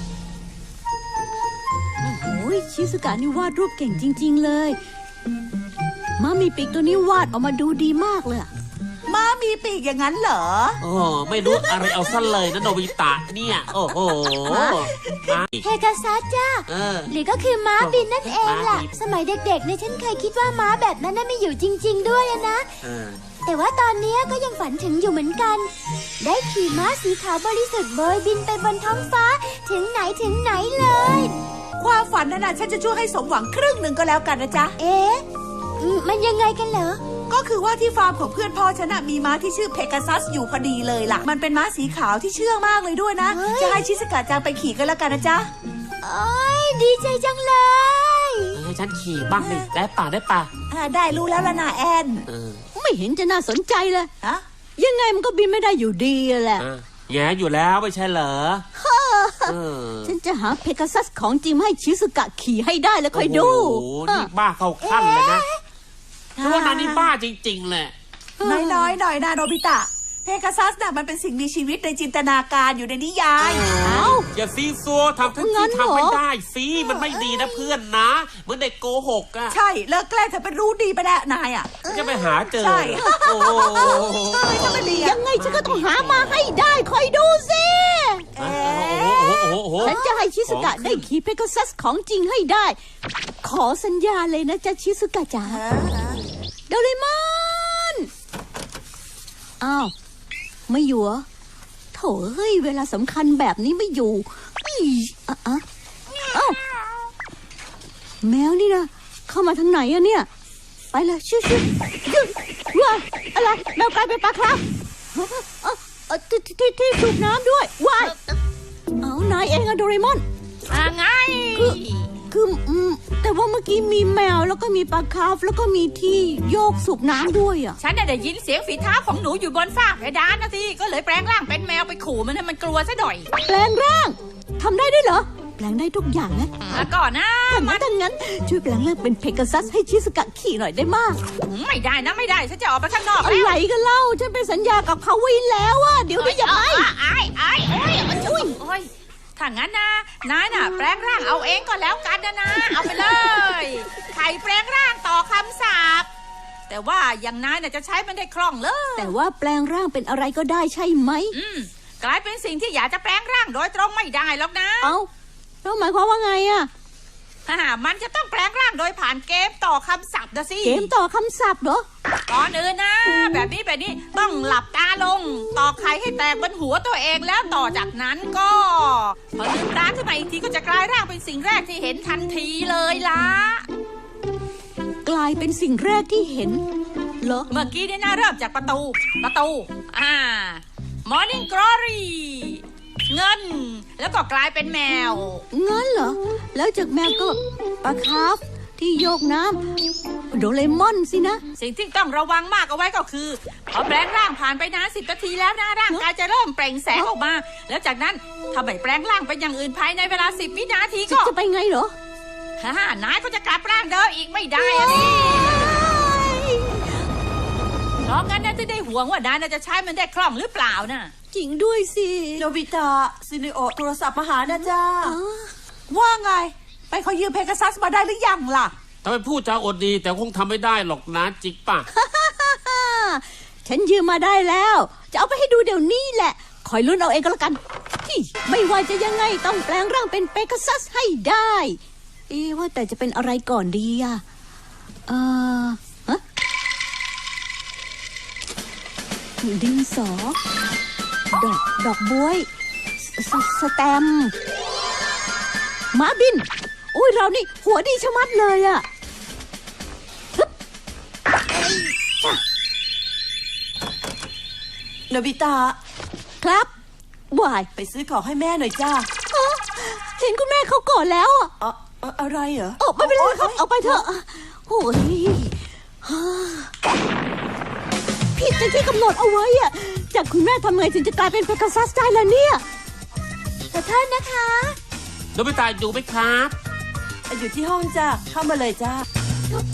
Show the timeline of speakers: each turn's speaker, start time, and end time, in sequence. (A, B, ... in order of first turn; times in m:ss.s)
0:02.0-0:04.8 A
0:06.2-0:08.5 A
0:09.1-0:10.8 B
0:10.8-0:15.7 C
0:11.4-0:12.2 B
0:14.4-0:15.4 B
0:15.6-0:22.7 D
0:16.7-0:17.2 C
0:17.7-0:19.0 C
0:22.8-0:23.2 C
0:23.4-0:31.4 D
0:31.8-0:34.8 B
0:34.8-0:35.2 D
0:35.8-0:37.0 D
0:37.2-0:45.5 B
0:43.2-0:44.0 D
0:46.0-0:48.6 D
0:48.5-0:50.5 C
0:49.4-0:49.7 B
0:50.7-0:52.3 B
0:52.3-0:52.6 C
0:52.8-0:54.1 A
0:54.8-0:56.7 A
0:56.6-0:58.7 C
0:58.8-1:04.3 A
0:59.5-1:00.2 C
1:03.1-1:05.5 C
1:04.8-1:05.6 D
1:06.4-1:07.1 B
1:06.4-1:07.9 C
1:08.4-1:09.0 A
1:08.4-1:13.7 B
1:13.4-1:19.6 C
1:13.8-1:14.3 A
1:15.3-1:16.2 A
1:19.5-1:25.2 B
1:21.9-1:26.4 C
1:23.0-1:24.1 A
1:24.9-1:28.3 A
1:28.4-1:29.4 B
1:28.4-1:31.1 C
1:29.8-1:32.8 A
1:33.4-1:35.6 A
1:35.4-1:36.2 B
1:36.7-1:38.1 A
1:39.6-1:39.9 A
1:40.7-1:41.2 A
1:41.9-1:45.6 A
1:46.3-1:46.6 A
1:48.2-1:50.3 A
1:50.9-1:54.6 A
1:55.1-1:58.2 A
1:59.0-2:00.2 A
2:00.7-2:02.1 E
2:01.6-2:07.8 A
2:07.8-2:13.3 E
2:13.3-2:16.9 A
2:16.7-2:17.8 E
2:17.5-2:21.2 A
2:21.4-2:23.6 E
2:23.2-2:26.9 A
2:26.2-2:36.1 E
2:28.1-2:28.6 A
2:36.7-2:39.1 E
2:39.0-2:41.4 A
2:41.3-2:44.9 E
2:44.8-2:45.1 A
2:45.6-2:46.7 A
2:47.5-2:50.9 E
2:50.6-2:51.8 A
2:52.3-3:03.7 E
3:05.0-3:06.6 A
3:07.2-3:07.5 A
3:07.5-3:15.4 E
3:15.5-3:19.6 A
3:20.3-3:21.4 A
3:21.6-3:31.3 E
3:31.1-3:31.9 A
3:32.6-3:35.7 E
3:34.6-3:37.0 A
3:38.0-3:41.1 E
3:41.3-3:42.5 A
3:42.4-3:45.2 B
3:44.5-3:45.5 A
3:45.9-3:48.7 B
3:49.0-3:51.9 C
3:51.9-4:01.8 A
4:02.3-4:04.2 A
4:05.1-4:06.2 A
4:09.4-4:10.4 A
4:11.3-4:12.5 A
4:13.0-4:14.3 A
4:15.9-4:18.8 A
4:25.1-4:25.8 B
4:26.4-4:26.7 A
4:27.3-4:27.7 A
4:27.8-4:29.1 B
4:29.3-4:31.5 A
4:31.6-4:34.0 B
4:32.8-4:36.7 A
4:38.4-4:42.6 A
4:43.7-4:44.8 D
4:45.4-4:46.5 C
4:47.3-4:49.1 B